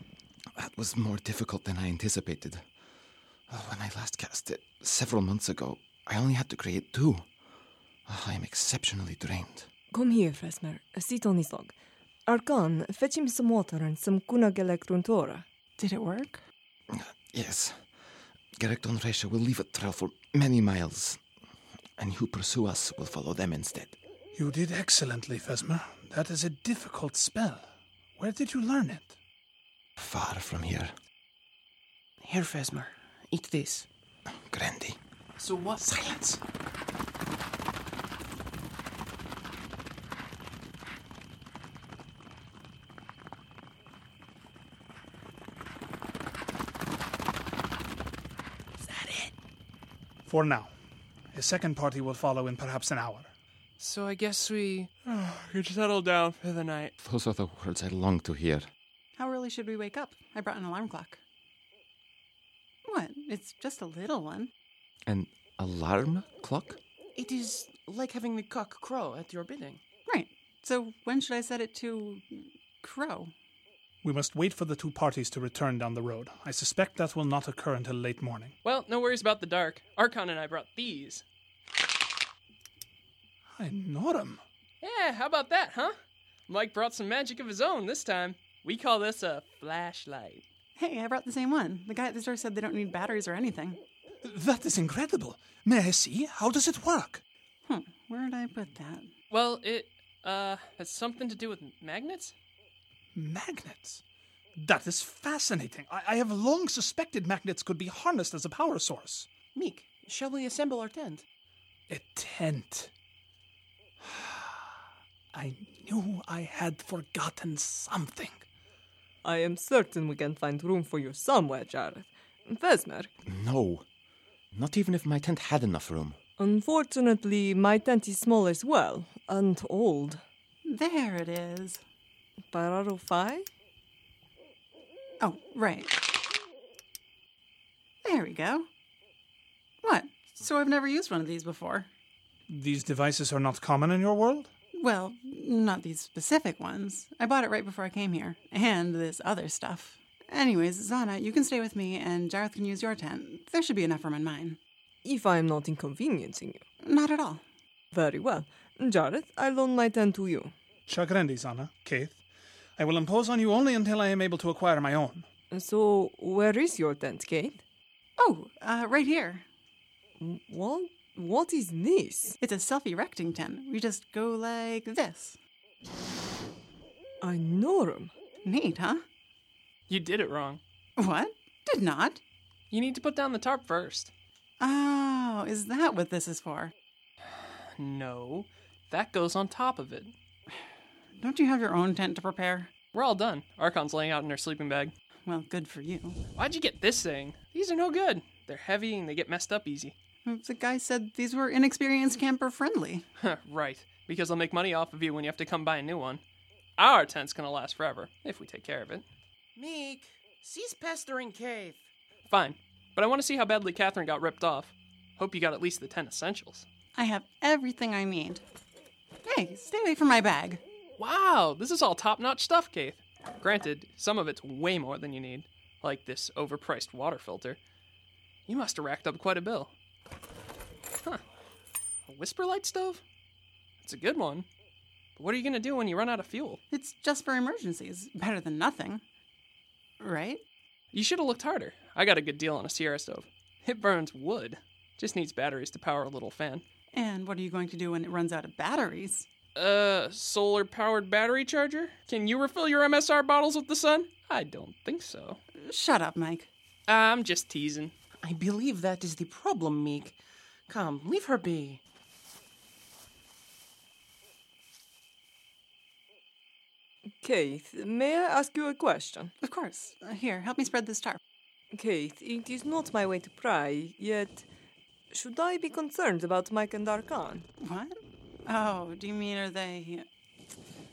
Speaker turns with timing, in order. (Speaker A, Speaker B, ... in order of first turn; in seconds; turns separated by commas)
Speaker A: 0.5-2.6, Speaker A: 3.5-7.2, Speaker A: 8.1-9.7, Speaker B: 9.9-11.7, Speaker B: 12.3-15.4, Speaker C: 15.8-16.4, Speaker A: 16.9-17.9, Speaker A: 18.5-21.2, Speaker A: 22.0-24.0, Speaker D: 24.3-29.1, Speaker A: 30.0-30.9, Speaker E: 32.2-33.9, Speaker A: 34.3-35.0, Speaker F: 35.4-35.8, Speaker F: 48.8-49.3, Speaker D: 50.2-50.7, Speaker D: 51.3-53.3, Speaker F: 53.8-56.9, Speaker A: 57.0-58.7, Speaker C: 59.1-61.2, Speaker C: 62.8-64.5, Speaker A: 65.0-66.8, Speaker E: 67.1-69.8, Speaker C: 70.1-73.3, Speaker D: 74.0-78.5, Speaker F: 78.6-81.2, Speaker D: 83.5-84.4, Speaker F: 84.8-85.9, Speaker F: 86.5-90.4, Speaker C: 90.8-93.8, Speaker D: 94.2-97.2, Speaker C: 97.6-99.1, Speaker F: 99.3-102.3, Speaker D: 103.1-104.0, Speaker D: 104.6-109.3, Speaker E: 109.5-111.2, Speaker D: 111.9-112.9, Speaker D: 114.0-114.7, Speaker D: 115.3-118.4, Speaker B: 119.2-123.1, Speaker A: 123.2-123.8, Speaker A: 124.5-126.2, Speaker B: 126.4-130.2, Speaker C: 130.7-131.8, Speaker B: 132.5-133.5, Speaker C: 135.2-136.2, Speaker C: 138.0-138.7, Speaker C: 139.8-141.9, Speaker D: 142.5-144.5, Speaker C: 144.8-154.6, Speaker B: 155.0-156.6, Speaker C: 156.8-157.4, Speaker B: 157.9-160.5, Speaker D: 160.9-162.2, Speaker D: 162.8-165.2, Speaker B: 165.5-167.6, Speaker C: 168.2-169.4, Speaker B: 170.2-172.4, Speaker C: 172.4-175.4, Speaker B: 177.2-178.1, Speaker C: 178.4-179.0, Speaker F: 179.9-180.6, Speaker C: 181.0-182.2, Speaker F: 182.7-184.1, Speaker C: 184.6-186.7, Speaker F: 187.7-190.1, Speaker C: 191.2-192.7, Speaker F: 192.9-194.9, Speaker C: 195.3-196.2, Speaker F: 196.3-199.9, Speaker C: 200.2-203.1, Speaker F: 203.2-206.2, Speaker F: 206.8-209.0, Speaker E: 209.6-211.8, Speaker F: 212.3-216.7, Speaker C: 216.9-218.4, Speaker C: 219.2-220.6, Speaker F: 221.0-227.6, Speaker F: 228.5-229.7, Speaker F: 232.1-233.0, Speaker F: 233.8-234.4, Speaker F: 235.2-236.6, Speaker C: 236.7-239.0, Speaker C: 240.0-240.4, Speaker F: 240.9-246.6, Speaker C: 246.9-249.3, Speaker F: 249.5-255.4, Speaker C: 255.7-256.5, Speaker F: 256.9-257.9, Speaker E: 258.2-260.2, Speaker E: 260.7-261.8, Speaker B: 267.2-269.3, Speaker C: 269.4-271.2, Speaker B: 271.7-274.5, Speaker B: 275.1-277.4, Speaker C: 277.6-280.1